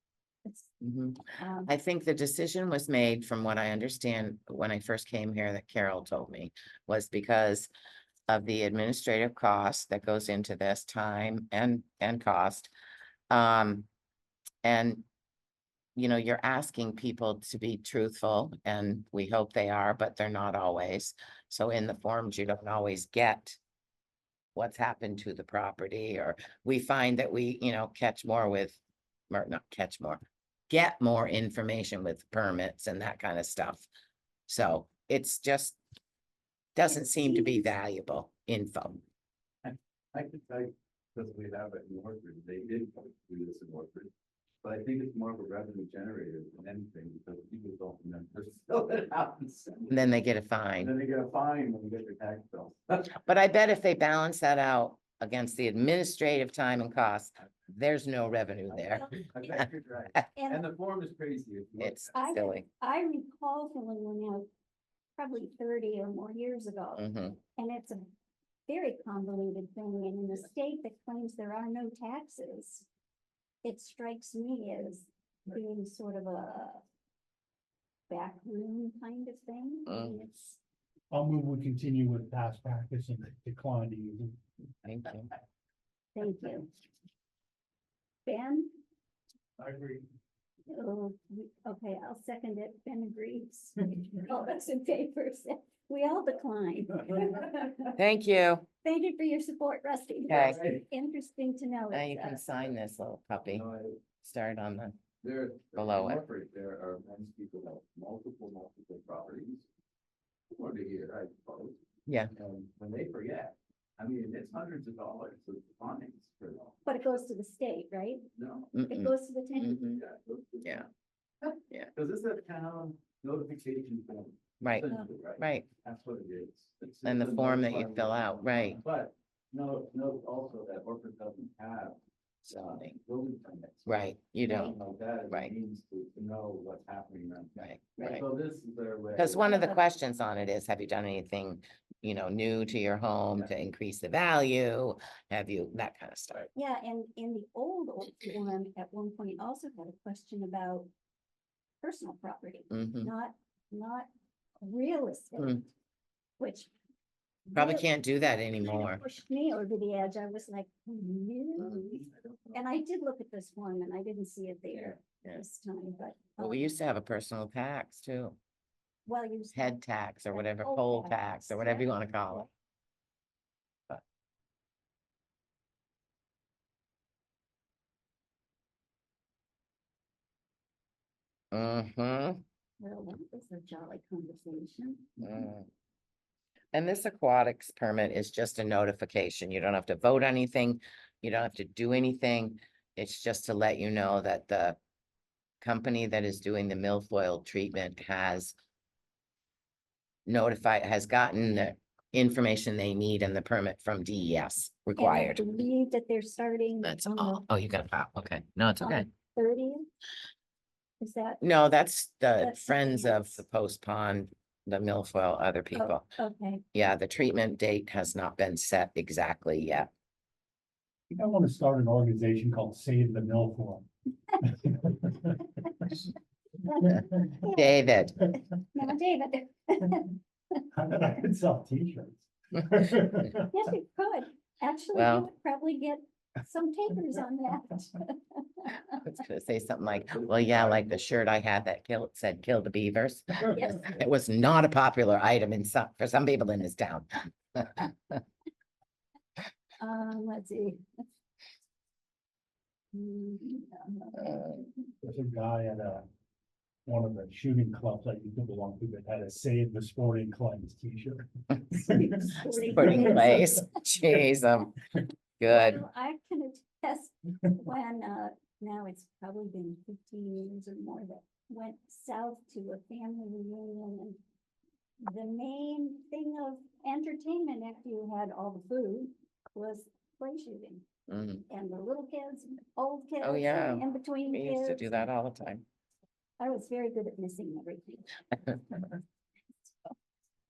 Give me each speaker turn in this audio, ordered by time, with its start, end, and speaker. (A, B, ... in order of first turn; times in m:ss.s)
0:00.4-0:00.7 A
0:00.8-0:07.7 B
0:01.4-0:01.7 A
0:08.3-0:12.7 B
0:13.3-0:13.9 B
0:14.6-0:15.0 B
0:16.0-0:23.6 B
0:24.5-0:28.8 B
0:29.3-0:33.9 B
0:34.5-0:35.8 B
0:36.8-0:39.0 B
0:37.2-0:37.6 A
0:39.6-0:44.1 C
0:44.6-0:50.0 C
0:49.9-0:50.9 B
0:50.8-0:53.1 C
0:53.2-0:59.1 B
0:58.7-1:02.2 C
1:00.3-1:00.6 A
1:01.8-1:02.6 B
1:02.1-1:04.5 A
1:05.2-1:08.0 A
1:07.0-1:07.4 B
1:08.7-1:12.9 A
1:13.6-1:16.8 A
1:18.1-1:20.6 A
1:19.9-1:20.2 B
1:21.1-1:24.4 D
1:24.8-1:25.3 B
1:26.2-1:26.7 A
1:28.2-1:28.7 A
1:29.6-1:30.0 D
1:30.7-1:38.0 A
1:38.0-1:38.6 B
1:38.8-1:42.4 A
1:40.3-1:40.6 B
1:40.3-1:40.8 C
1:41.9-1:43.6 B
1:43.5-1:44.0 C
1:44.2-1:45.0 B
1:45.2-1:49.7 C
1:45.8-1:46.2 B
1:50.5-1:51.8 C
1:52.3-1:56.8 C
1:56.8-1:58.3 A
1:58.3-1:58.8 C
1:58.7-2:00.0 B
1:58.8-2:00.0 A
2:00.0-2:00.9 C
2:01.5-2:13.9 C
2:04.6-2:05.7 B
2:07.0-2:08.8 B
2:12.5-2:13.0 B
2:13.8-2:14.8 B
2:14.5-2:14.7 A
2:14.5-2:19.7 C
2:17.6-2:18.2 B
2:19.2-2:26.5 B
2:19.5-2:19.8 A
2:26.5-2:30.9 A
2:31.8-2:34.1 A
2:32.7-2:33.1 B
2:34.6-2:35.6 A
2:36.4-2:36.7 A
2:37.5-2:37.9 A
2:37.6-2:39.0 B
2:38.6-2:46.7 A
2:46.4-2:48.4 B
2:49.0-2:52.4 A
2:49.5-2:52.5 B
3:01.5-3:02.4 B
3:02.8-3:05.5 A
3:05.2-3:05.7 B
3:06.7-3:14.8 B
3:15.6-3:18.5 B
3:20.3-3:25.5 B
3:25.0-3:27.4 A
3:26.8-3:29.0 B
3:28.8-3:29.8 A
3:31.0-3:31.4 A
3:31.4-3:36.0 B
3:32.4-3:33.4 A
3:35.7-3:36.6 A
3:36.7-3:39.9 B
3:41.1-3:43.9 D
3:44.4-3:46.0 D
3:46.6-3:47.7 A
3:46.8-3:47.4 D
3:47.5-3:48.3 B
3:48.7-3:50.6 A
3:50.7-3:53.5 D
3:53.5-3:59.1 A
3:54.9-3:55.3 B
3:59.0-4:08.2 B
4:00.0-4:01.0 C
4:03.5-4:03.9 A
4:09.8-4:10.8 A
4:12.9-4:14.7 A
4:14.2-4:14.5 B
4:15.0-4:16.0 D
4:16.8-4:23.5 D
4:21.9-4:23.6 A
4:22.7-4:24.7 B
4:25.4-4:25.8 B
4:25.5-4:34.2 A
4:35.0-4:40.8 A
4:41.1-4:41.4 B
4:41.5-4:45.0 A
4:43.2-4:45.6 B
4:46.4-4:48.9 A